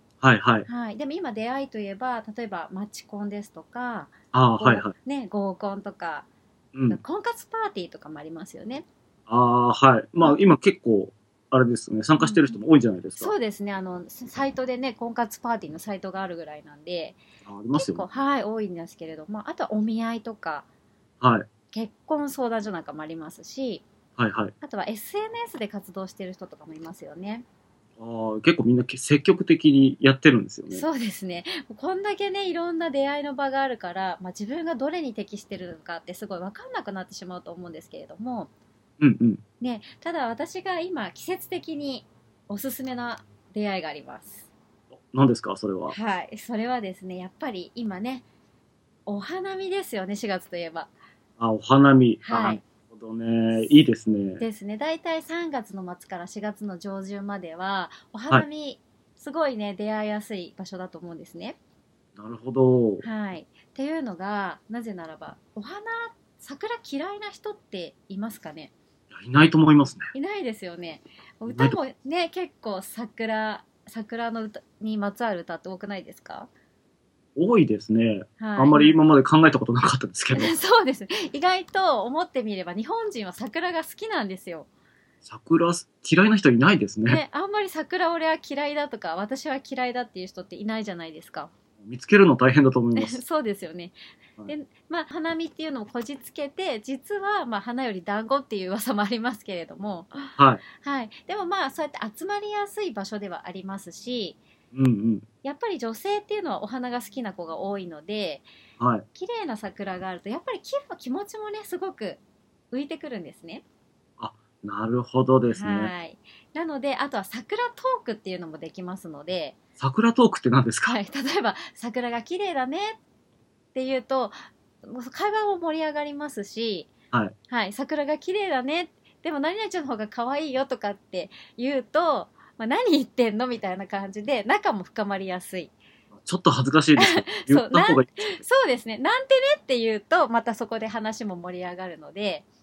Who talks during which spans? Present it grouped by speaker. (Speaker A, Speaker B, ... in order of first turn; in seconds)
Speaker A: 0.2-0.7, 4.3-4.9, 6.7-7.0, 9.3-13.3, 17.4-18.1, 21.2-21.5, 24.2-24.5, 28.0-30.9, 39.0-39.4, 44.9-46.0, 51.4-54.4, 62.2-63.0, 69.1-70.1, 71.5-71.8, 77.4-80.5, 85.2-87.2, 91.8-93.2, 100.4-100.6, 104.7-105.3, 108.8-109.1, 114.2-115.9, 119.8-121.0, 136.1-138.4
Speaker B: 0.7-6.3, 6.9-8.9, 12.2-12.6, 13.2-17.2, 17.7-20.7, 21.7-23.8, 24.6-27.4, 30.7-38.5, 39.6-44.5, 45.9-48.2, 49.1-50.9, 52.2-52.6, 54.4-61.6, 63.0-68.7, 70.1-76.5, 78.4-79.0, 80.3-84.7, 87.1-91.5, 93.0-94.0, 94.5-104.4, 105.4-108.5, 109.1-113.7, 115.5-119.6, 120.9-123.0, 123.7-126.9, 127.5-135.7, 137.0-142.4